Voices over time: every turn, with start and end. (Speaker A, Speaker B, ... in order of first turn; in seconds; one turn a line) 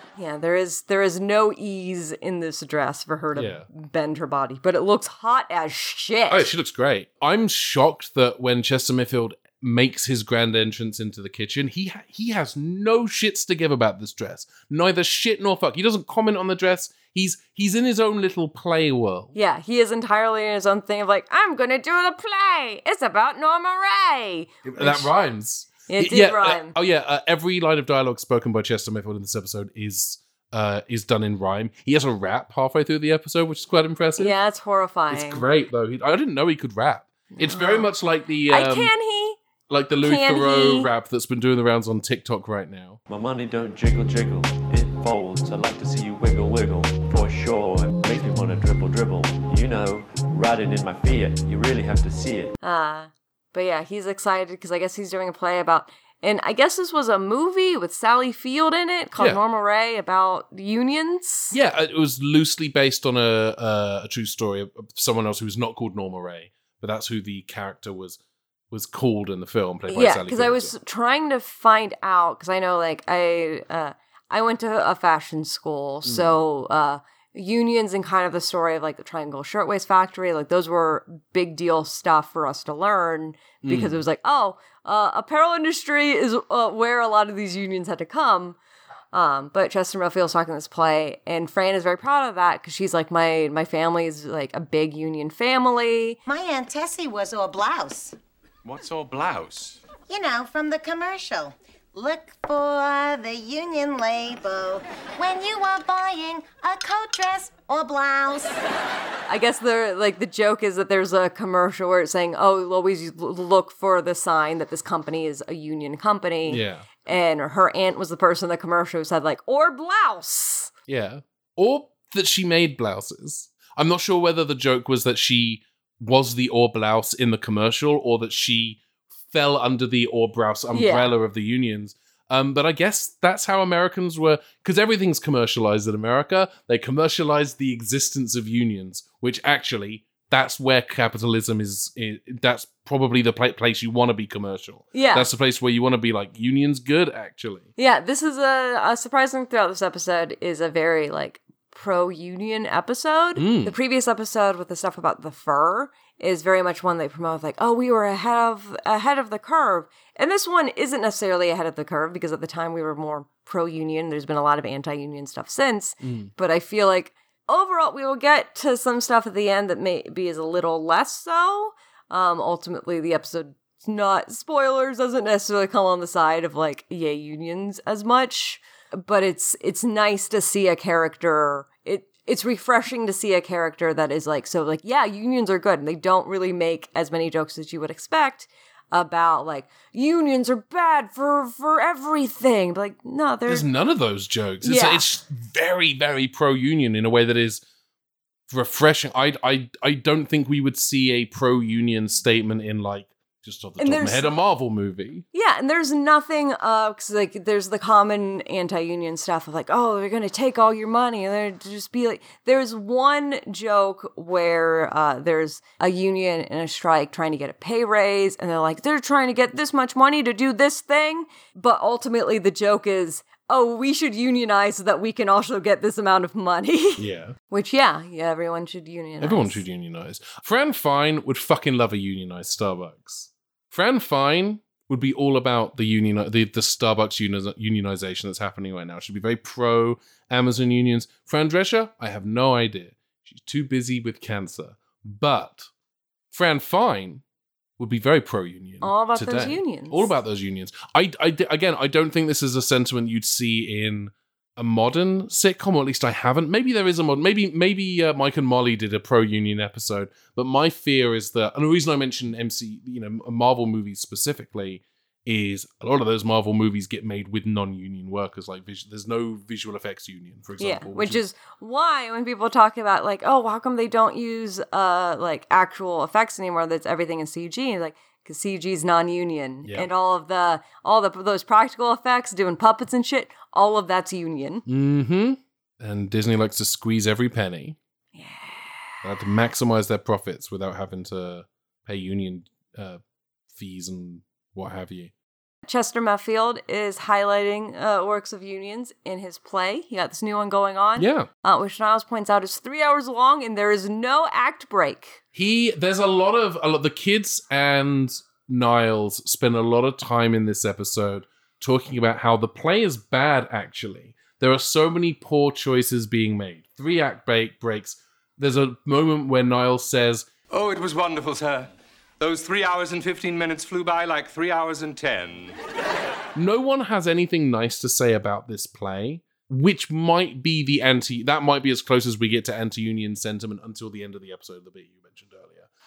Speaker A: 0.1-6.5
Speaker B: 3.3-3.7
Speaker B: 6.3-19.3
Speaker A: 19.3-25.1
Speaker B: 24.7-34.3
Speaker A: 25.9-26.7
Speaker A: 34.2-35.4
Speaker B: 35.1-38.9
Speaker A: 37.3-37.9
Speaker A: 38.5-39.4
Speaker B: 39.7-43.0
Speaker A: 40.0-40.9
Speaker C: 43.1-52.5
Speaker A: 52.6-61.5
Speaker B: 61.5-68.2
Speaker B: 68.7-70.7
Speaker A: 69.9-88.6
Speaker B: 83.6-84.0
Speaker A: 89.1-96.2
Speaker D: 96.2-98.2
Speaker E: 98.6-99.8
Speaker D: 100.1-108.6
Speaker A: 109.3-120.7
Speaker B: 116.5-116.9
Speaker B: 120.9-147.7
Speaker A: 130.7-131.1
Speaker A: 144.9-145.3
Speaker A: 147.8-193.7
Speaker B: 153.3-153.7
Speaker B: 166.0-166.3
Speaker B: 193.5-197.6
Speaker A: 194.6-195.0
Speaker B: 198.5-205.2
Speaker A: 203.8-204.3
Speaker A: 205.3-229.6
Speaker B: 227.0-227.3
Speaker B: 229.2-245.7
Speaker B: 246.3-247.2
Speaker B: 247.8-271.2
Speaker A: 248.8-250.1
Speaker A: 270.6-284.6
Speaker B: 284.6-287.8
Speaker A: 288.1-289.0
Speaker B: 289.0-293.0
Speaker B: 293.5-295.1
Speaker A: 295.6-305.2
Speaker B: 301.0-301.3
Speaker B: 305.3-320.3
Speaker E: 320.5-325.6
Speaker B: 326.3-335.7